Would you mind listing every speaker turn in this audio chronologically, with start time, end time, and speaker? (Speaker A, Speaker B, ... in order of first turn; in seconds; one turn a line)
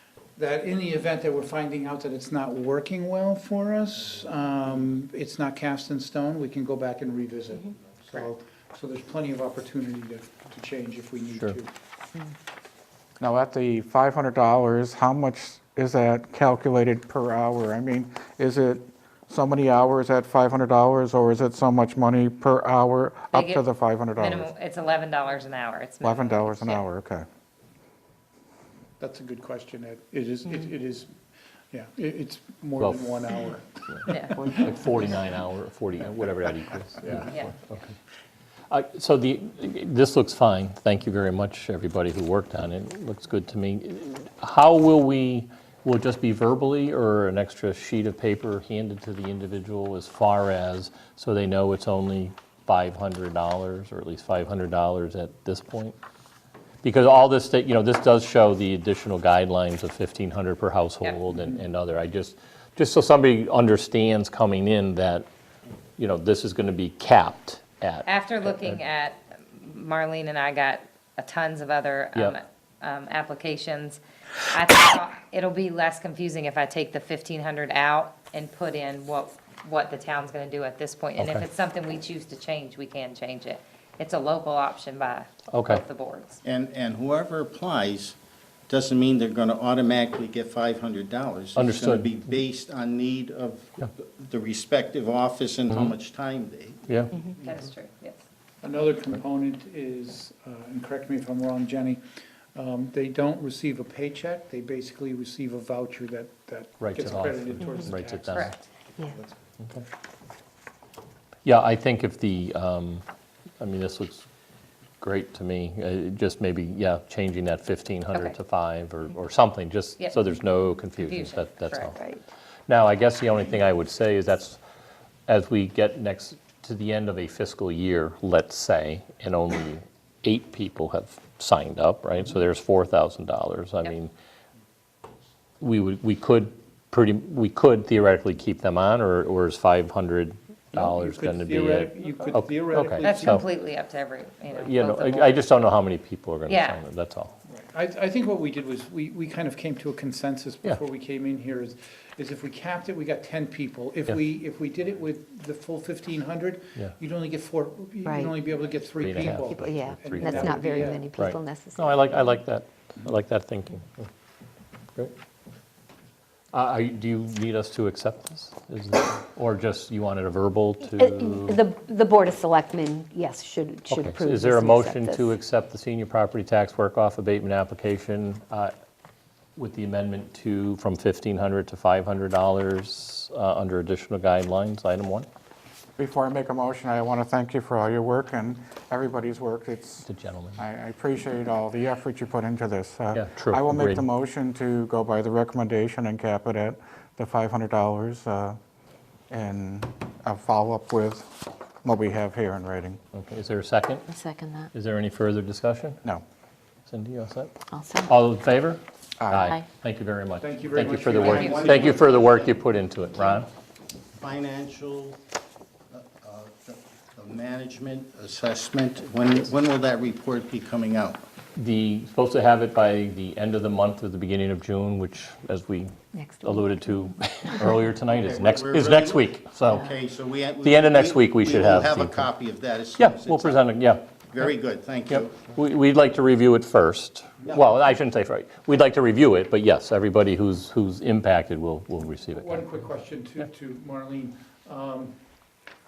Speaker A: 0.3-11.7
Speaker B: 13.2-24.5
Speaker C: 23.3-23.6
Speaker C: 24.2-26.8
Speaker B: 26.0-27.2
Speaker A: 29.0-31.1
Speaker A: 31.7-34.5
Speaker D: 32.8-33.1
Speaker C: 34.1-34.5
Speaker D: 34.5-37.9
Speaker D: 38.7-56.0
Speaker D: 56.8-65.2
Speaker D: 66.0-68.8
Speaker C: 68.1-74.0
Speaker C: 74.5-86.4
Speaker D: 81.2-81.4
Speaker D: 85.5-85.8
Speaker E: 86.4-88.2
Speaker E: 88.7-97.6
Speaker D: 91.5-92.2
Speaker D: 95.7-95.9
Speaker D: 96.9-97.2
Speaker C: 97.3-98.2
Speaker A: 98.6-102.0
Speaker A: 102.5-108.5
Speaker D: 106.8-108.6
Speaker D: 111.4-113.0
Speaker D: 113.6-114.2
Speaker D: 115.0-122.0
Speaker C: 121.0-121.9
Speaker D: 122.7-124.6
Speaker D: 125.3-134.1
Speaker D: 135.6-143.5
Speaker A: 140.7-143.5
Speaker C: 143.0-145.3
Speaker D: 144.5-147.3
Speaker A: 147.5-161.1
Speaker F: 158.1-158.3
Speaker D: 159.0-160.6
Speaker F: 159.4-162.0
Speaker D: 161.2-164.1
Speaker D: 166.5-171.6
Speaker F: 170.9-175.3
Speaker D: 173.9-178.7
Speaker D: 179.6-185.3
Speaker B: 186.0-198.6
Speaker D: 190.1-190.6
Speaker D: 193.1-194.0
Speaker B: 199.3-203.0
Speaker D: 203.1-204.1
Speaker D: 204.7-206.0
Speaker D: 206.9-207.5
Speaker D: 208.0-213.5
Speaker B: 209.2-209.6
Speaker A: 210.4-212.1
Speaker E: 211.1-212.6
Speaker C: 211.3-211.6
Speaker E: 214.2-215.2
Speaker E: 215.9-221.2
Speaker D: 221.6-229.9
Speaker F: 226.2-226.6
Speaker E: 228.1-233.7
Speaker D: 230.6-232.3
Speaker D: 232.9-234.5
Speaker E: 234.3-235.5
Speaker D: 235.1-242.7
Speaker E: 237.4-237.7
Speaker A: 242.3-245.1